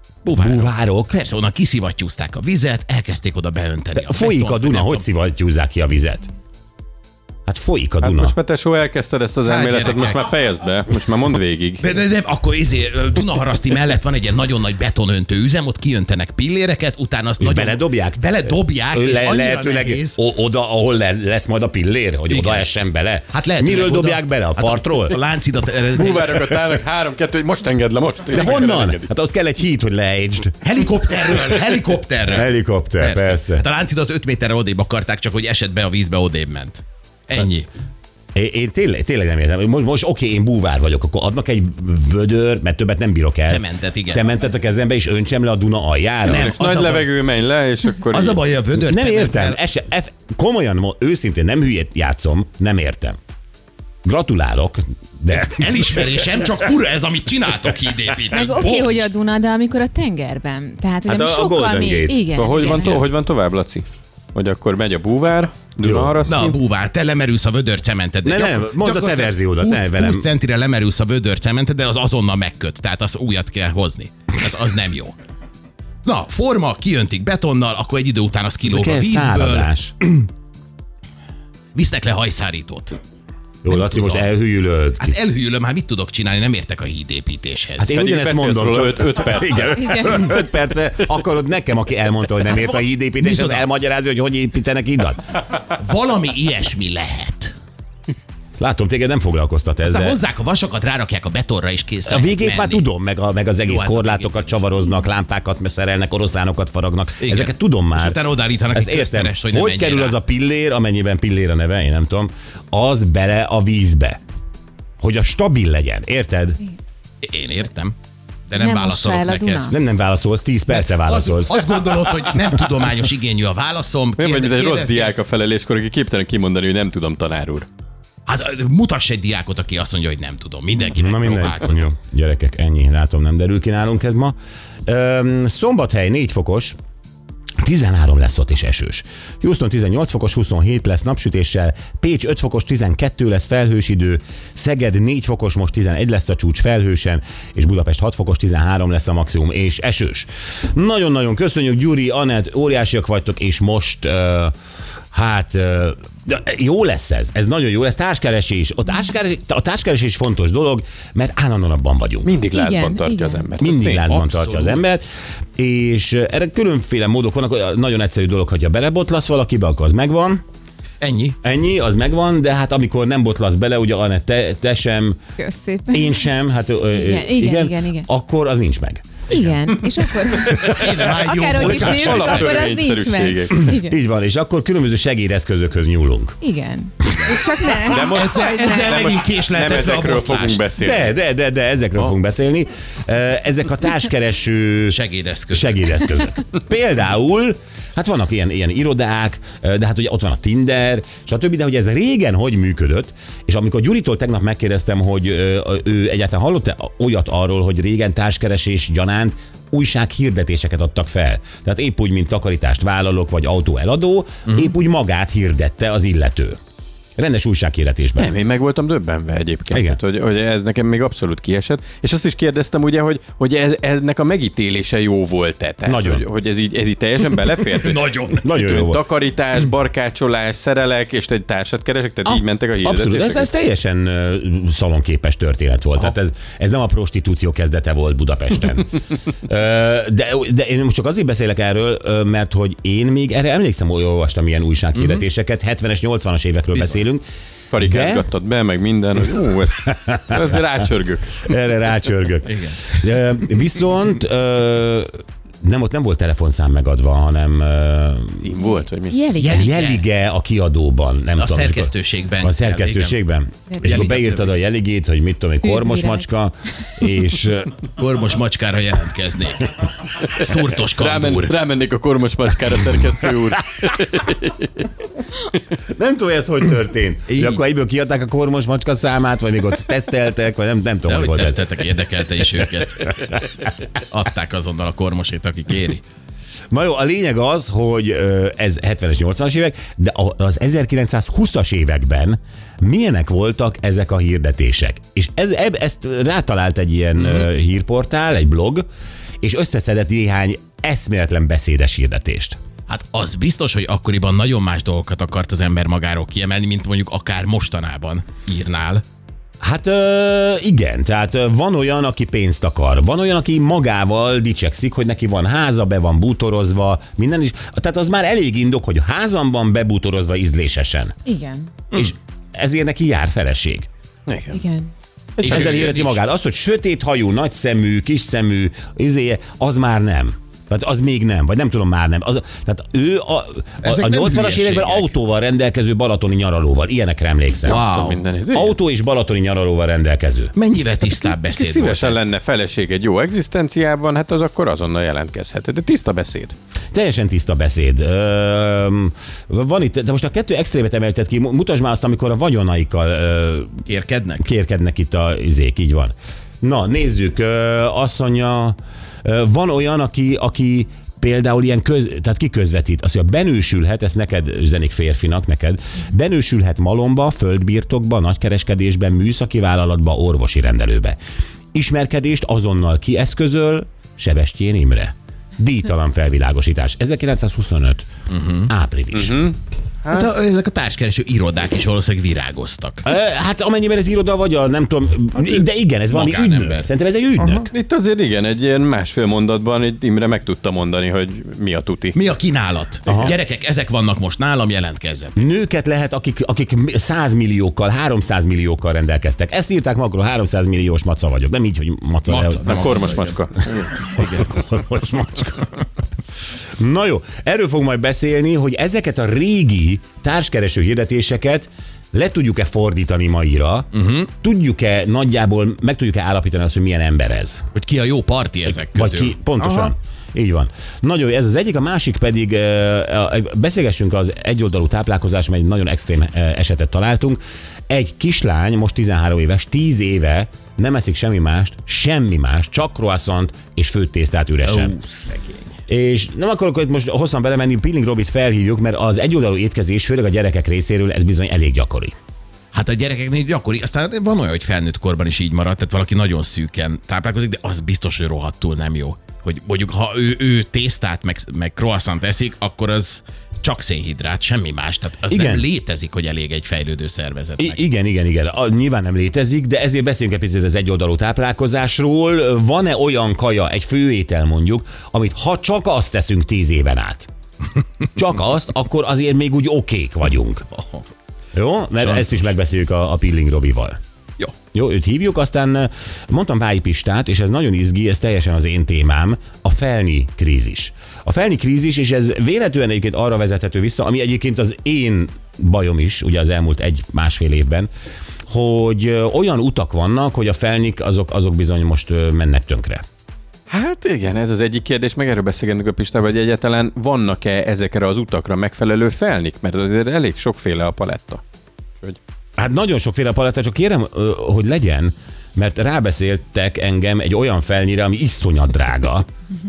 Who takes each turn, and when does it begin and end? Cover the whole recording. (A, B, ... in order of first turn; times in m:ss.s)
0:00.2-0:05.0 A
0:00.3-0:01.2 B
0:03.9-0:06.3 B
0:07.5-0:08.3 B
0:08.0-0:11.8 C
0:09.4-0:10.3 A
0:11.8-0:20.2 A
0:17.4-0:25.2 B
0:22.3-0:22.7 A
0:23.3-0:26.8 A
0:25.9-0:29.1 C
0:28.3-0:30.6 B
0:30.6-0:37.7 A
0:32.3-0:33.6 B
0:38.3-0:46.5 B
0:43.5-0:44.2 A
0:46.2-0:47.1 A
0:46.2-0:48.4 C
0:48.1-0:49.6 A
0:48.8-0:53.2 B
0:54.0-0:56.2 B
0:55.4-0:59.1 A
0:58.3-1:02.9 D
1:01.0-1:02.2 B
1:02.3-1:06.6 C
1:02.6-1:03.0 A
1:05.8-1:06.4 B
1:06.2-1:15.1 A
1:08.2-1:10.3 B
1:16.0-1:20.3 A
1:18.6-1:19.9 B
1:21.7-1:23.0 A
1:23.6-1:25.2 B
1:23.7-1:24.3 A
1:25.0-1:27.9 A
1:27.8-1:35.2 B
1:27.9-1:30.0 C
1:29.8-1:30.2 D
1:33.2-1:33.6 A
1:35.8-1:37.5 A
1:38.6-1:40.2 B
1:39.8-1:42.8 A
1:42.1-1:48.2 B
1:43.6-1:44.6 A
1:47.2-1:50.2 A
1:48.7-1:54.2 B
1:55.0-1:56.6 B
1:57.2-1:57.9 A
1:58.5-1:59.7 A
1:58.5-1:59.8 D
1:59.7-2:01.7 B
2:00.7-2:05.2 A
2:04.2-2:07.7 C
2:08.2-2:11.9 A
2:11.0-2:14.3 B
2:14.8-2:16.7 B
2:17.6-2:34.5 B
2:35.1-2:42.3 B
2:42.2-2:44.1 C
2:42.5-2:43.5 D
2:43.6-2:45.0 B
2:44.0-2:44.8 A
2:45.6-2:50.4 B
2:51.0-2:51.4 A
2:51.4-2:55.2 B
2:55.4-2:56.3 D
2:55.9-2:59.0 B
2:56.9-2:58.1 D
2:59.3-3:04.0 D
3:00.3-3:02.7 A
3:01.5-3:03.7 C
3:03.6-3:06.4 B
3:06.4-3:09.0 D
3:07.0-3:07.3 B
3:07.7-3:10.6 A
3:07.8-3:11.2 C
3:10.8-3:15.0 B
3:14.9-3:16.1 A
3:15.5-3:36.6 B
3:37.2-3:38.3 B
3:38.2-3:53.5 C
3:39.7-3:40.0 B
3:45.8-3:46.2 B
3:47.7-3:48.4 A
3:48.4-3:49.1 B
3:52.2-4:07.2 B
4:05.0-4:05.2 A
4:06.7-4:07.0 A
4:07.7-4:11.5 C
4:07.8-4:08.3 B
4:09.8-4:10.6 B
4:11.3-4:18.5 B
4:12.4-4:13.0 A
4:18.4-4:19.2 C
4:18.6-4:19.7 D
4:19.4-4:20.0 A
4:19.5-4:27.8 B
4:21.4-4:23.2 A
4:23.8-4:24.5 A
4:25.6-4:26.2 D
4:28.0-4:31.6 A
4:30.9-4:34.9 C
4:35.9-4:41.6 B
4:37.3-4:37.6 A
4:41.1-4:43.4 A
4:44.0-4:46.0 A
4:46.7-4:58.8 B
4:59.4-5:02.6 B
5:02.9-5:09.0 A
5:09.6-5:21.2 B
5:21.2-5:21.7 D
5:21.9-5:23.9 B
5:24.3-5:24.6 C
5:24.5-5:24.9 D
5:25.4-5:26.2 A
5:25.4-5:37.8 B
5:33.8-5:35.1 A
5:37.6-5:38.2 A
5:37.6-5:38.8 C
5:38.5-5:40.5 B
5:40.5-5:42.2 A
5:41.2-5:46.5 C
5:46.9-5:53.8 B
5:53.9-5:54.5 A
5:54.4-6:11.2 B
6:11.7-6:18.1 B
6:18.3-6:18.7 A
6:18.7-6:19.5 B
6:19.1-6:20.3 C
6:20.1-6:23.1 A
6:23.0-6:27.7 B
6:25.3-6:26.9 A
6:27.6-6:32.2 C
6:32.1-6:35.4 A
6:33.1-6:33.3 B
6:33.1-6:33.3 C
6:35.4-6:43.0 B
6:42.3-6:44.6 A
6:42.6-6:43.9 C
6:44.2-6:45.7 B
6:46.8-6:57.7 B
6:53.9-6:54.3 A
6:57.7-6:59.9 A
6:58.9-7:15.0 B
7:14.6-7:15.7 A
7:15.9-7:22.1 B
7:22.7-7:37.8 A
7:35.3-7:35.7 B
7:37.6-7:47.3 B
7:48.1-7:50.6 B
7:50.7-7:51.0 A
7:51.5-7:54.0 B
7:54.7-8:07.9 B
8:08.5-8:13.0 B
8:13.7-8:21.4 C
8:22.6-8:29.3 B